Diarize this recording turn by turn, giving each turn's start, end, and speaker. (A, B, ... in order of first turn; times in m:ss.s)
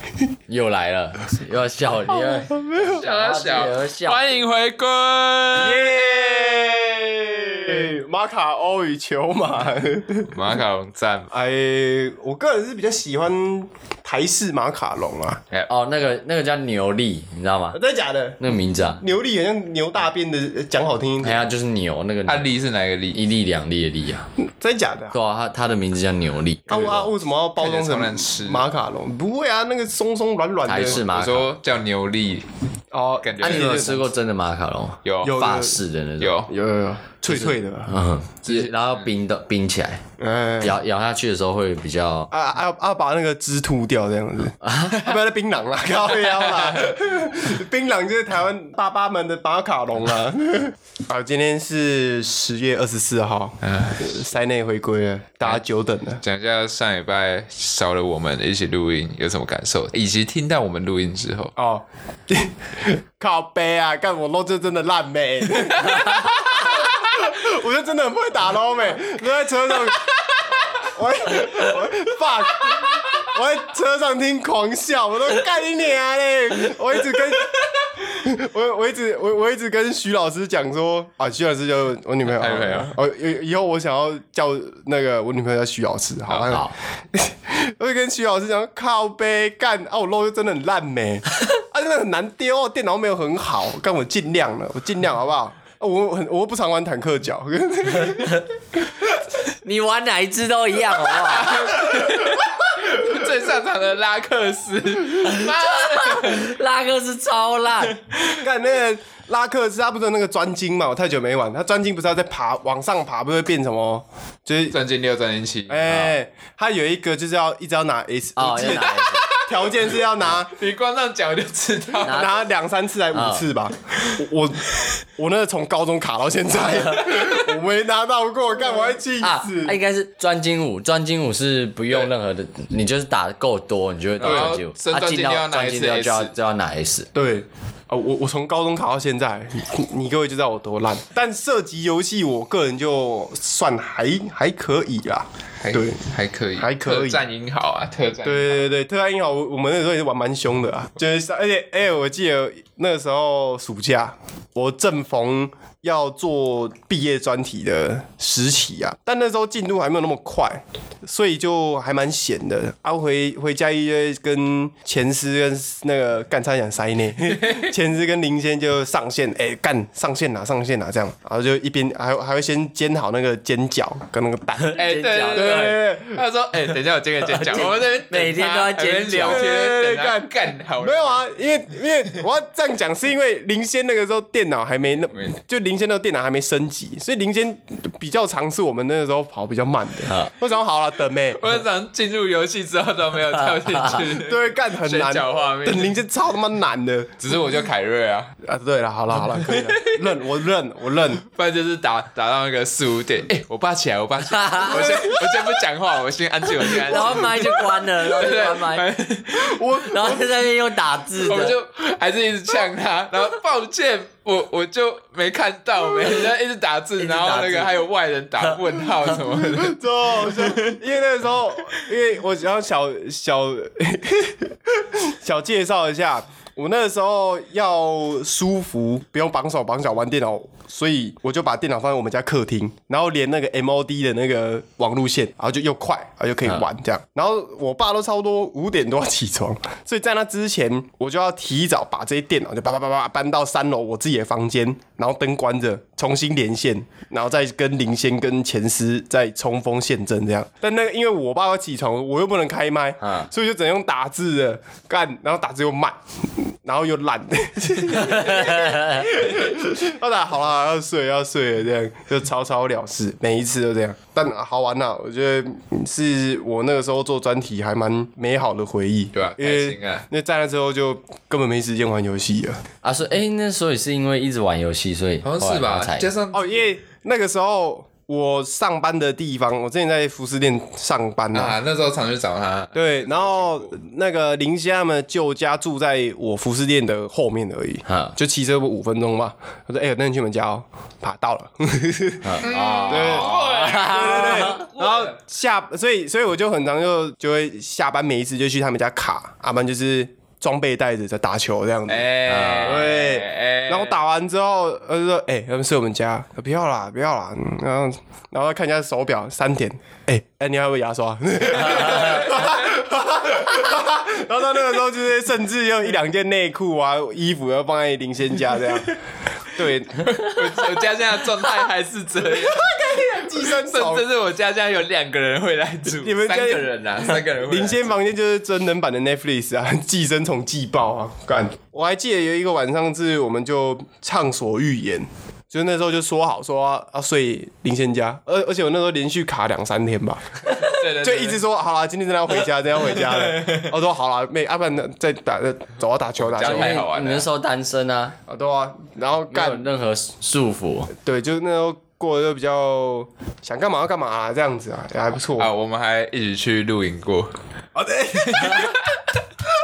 0:00.5-0:04.3 A
0:02.5-0:03.0 B
0:02.8-0:06.3 C
0:05.5-0:10.4 B
0:10.2-0:11.3 C
0:11.3-0:15.4 B
0:15.7-0:17.8 A
0:17.7-0:21.4 B
0:18.4-0:19.0 A
0:21.2-0:22.5 A
0:22.3-0:23.2 C
0:23.2-0:24.3 A
0:24.4-0:25.2 B
0:25.1-0:27.1 A
0:26.7-0:31.1 B
0:27.6-0:28.7 C
0:30.6-0:31.5 A
0:30.8-0:32.5 C
0:32.9-0:34.1 B
0:33.2-0:33.8 C
0:33.4-0:36.4 A
0:35.0-0:35.4 C
0:35.2-0:35.8 B
0:36.2-0:36.5 C
0:36.5-0:37.9 B
0:37.3-0:40.0 A
0:38.5-0:39.1 C
0:40.2-0:40.8 B
0:40.6-0:42.3 A
0:42.3-0:56.2 B
0:44.6-0:45.1 A
0:46.4-0:46.9 C
0:53.6-0:54.0 C
0:56.2-1:01.5 C
1:01.6-1:10.1 B
1:05.8-1:06.4 C
1:10.8-1:38.4 B
1:22.3-1:23.0 C
1:26.3-1:26.6 C
1:39.6-1:41.9 A
1:41.3-1:46.6 C
1:45.1-1:48.0 A
1:48.4-1:54.8 B
1:54.7-1:56.1 C
1:55.7-2:00.5 B
1:58.4-1:59.3 A
1:59.2-1:59.6 C
2:00.4-2:02.3 C
2:02.0-2:09.8 B
2:02.0-2:02.3 A
2:03.1-2:03.5 A
2:07.1-2:07.5 C
2:09.2-2:17.1 A
2:14.2-2:14.5 B
2:14.2-2:16.3 C
2:17.2-2:26.0 B
2:25.6-2:28.6 C
2:26.6-2:27.2 B
2:28.2-2:54.8 B
2:47.3-2:47.7 C
2:54.6-2:55.8 A
2:54.8-3:01.2 C
2:55.3-2:56.2 B
2:57.2-2:59.5 A
2:59.2-3:11.4 B
3:10.1-3:10.3 A
3:11.4-3:16.0 C
3:14.1-3:17.1 B
3:17.2-3:18.3 C
3:18.4-3:21.2 B
3:19.2-3:20.0 C
3:21.3-3:29.7 C
3:24.3-3:25.2 A
3:26.8-3:28.9 A
3:26.9-3:27.3 B
3:29.3-3:30.4 B
3:29.8-3:31.6 A
3:31.2-3:40.8 C
3:37.0-3:37.8 A
3:39.2-4:32.6 B
4:13.0-4:13.3 A
4:18.4-4:19.1 A
4:29.1-4:30.0 C
4:32.8-4:36.1 A
4:35.2-4:36.6 C
4:36.3-4:41.6 B
4:41.3-4:43.6 C
4:42.7-5:02.1 B
4:47.9-4:48.2 A
4:52.2-4:54.7 A
4:52.4-4:55.2 C
5:01.9-5:04.0 C
5:02.2-5:02.9 A
5:02.6-5:19.0 B
5:11.6-5:12.6 C
5:19.5-5:20.1 B
5:20.0-5:27.9 C
5:22.4-5:24.1 B
5:26.0-5:46.8 B
5:40.5-5:41.4 C
5:42.9-5:43.7 C
5:46.2-5:47.3 C
5:46.4-5:48.2 A
5:48.3-5:49.7 B
5:49.3-5:50.9 A
5:51.0-5:55.5 B
5:55.4-5:57.3 C
5:57.8-5:58.7 B
5:58.2-5:58.8 C